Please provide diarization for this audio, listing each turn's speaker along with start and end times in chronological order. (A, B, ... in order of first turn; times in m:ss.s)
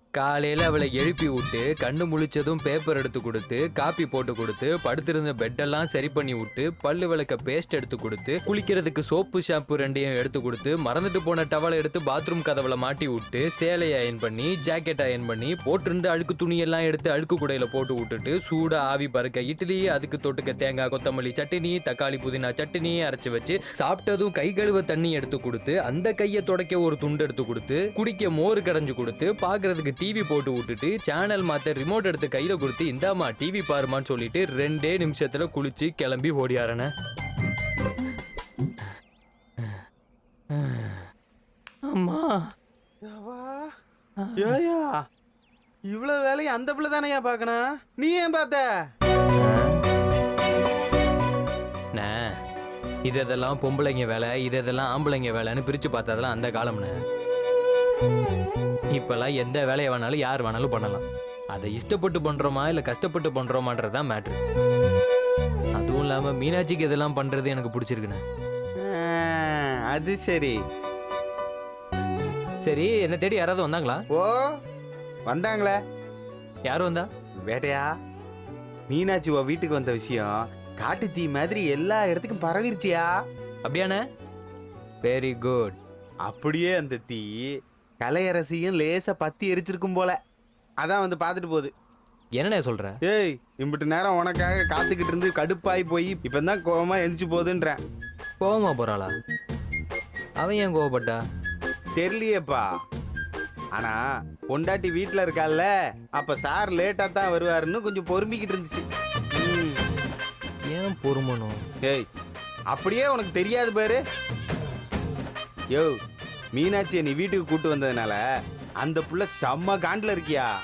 0:00.2-0:36.9 A
0:39.6-0:39.8 A
0:40.5-0:41.1 A
0:41.9-0:42.5 A
0:43.0-0:43.7 B
0:44.2-0:44.6 A
0:44.4-0:45.0 B
0:45.9-0:48.6 B
0:49.4-0:49.8 A
0:51.9-0:52.4 A
0:53.1-0:57.0 A
0:58.9-1:04.4 A
1:05.8-1:08.2 A
1:08.8-1:10.6 B
1:12.6-1:14.0 A
1:14.1-1:14.5 B
1:15.3-1:15.8 B
1:16.6-1:17.1 A
1:17.5-1:17.9 B
1:18.9-1:23.1 B
1:23.6-1:24.0 A
1:25.0-1:25.8 A
1:26.3-1:30.2 B
1:30.8-1:31.7 B
1:32.4-1:33.0 A
1:33.0-1:37.8 B
1:38.4-1:39.1 A
1:40.4-1:41.2 A
1:42.0-1:42.6 B
1:44.5-1:49.8 B
1:50.7-1:51.6 A
1:52.7-1:54.0 B
1:56.5-1:58.2 B
1:58.8-2:00.5 B